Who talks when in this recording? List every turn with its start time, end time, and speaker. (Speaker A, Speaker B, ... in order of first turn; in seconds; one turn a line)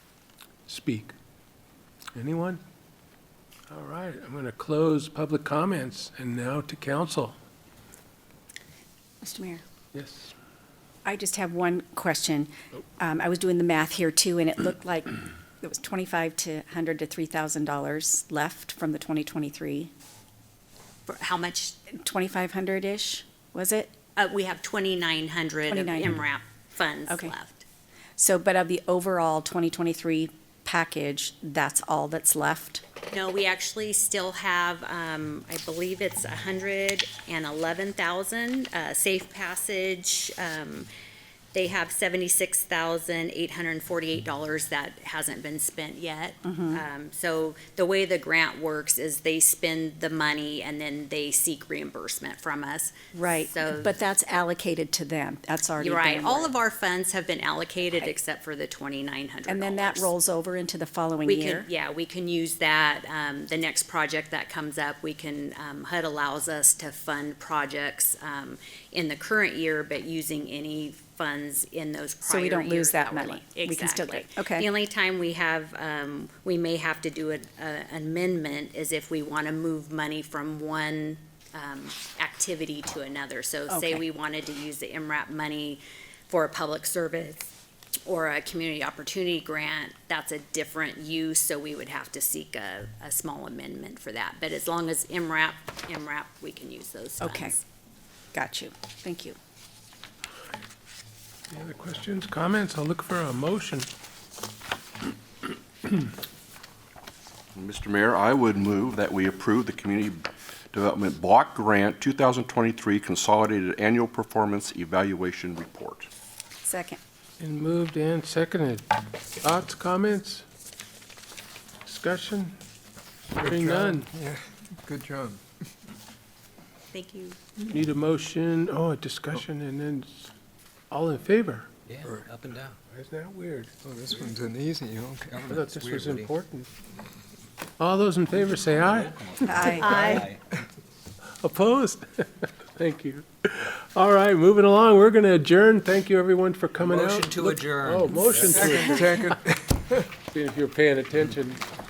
Speaker A: 0.7-1.1
Speaker A: 2.1-2.6
Speaker A: 3.7-7.3
Speaker B: 9.2-9.6
Speaker A: 9.9-10.3
Speaker B: 11.0-19.9
Speaker C: 21.1-21.8
Speaker B: 21.9-23.9
Speaker C: 24.1-27.6
Speaker B: 25.7-26.2
Speaker B: 27.1-27.3
Speaker B: 28.2-32.8
Speaker C: 33.1-40.9
Speaker C: 41.5-53.9
Speaker B: 46.4-46.8
Speaker B: 53.1-56.5
Speaker C: 55.8-60.1
Speaker B: 59.5-61.7
Speaker C: 61.2-87.5
Speaker B: 72.3-74.7
Speaker B: 83.7-84.0
Speaker C: 88.0-97.6
Speaker B: 97.2-97.5
Speaker B: 98.3-99.3
Speaker A: 101.5-103.9
Speaker D: 107.5-116.1
Speaker B: 116.6-117.0
Speaker A: 117.4-118.8
Speaker A: 119.4-120.4
Speaker A: 121.8-122.5
Speaker A: 123.3-124.1
Speaker E: 123.4-125.4
Speaker C: 126.9-127.4
Speaker A: 127.6-130.3
Speaker A: 130.9-131.7
Speaker F: 131.9-132.8
Speaker A: 132.9-133.7
Speaker E: 133.8-135.6
Speaker F: 135.3-136.3
Speaker A: 135.5-136.7
Speaker A: 137.8-140.1
Speaker F: 138.6-140.4
Speaker B: 139.4-140.2
Speaker C: 139.8-140.2
Speaker A: 141.4-149.3
Speaker F: 146.8-148.9
Speaker E: 148.3-149.9
Speaker A: 150.2-151.6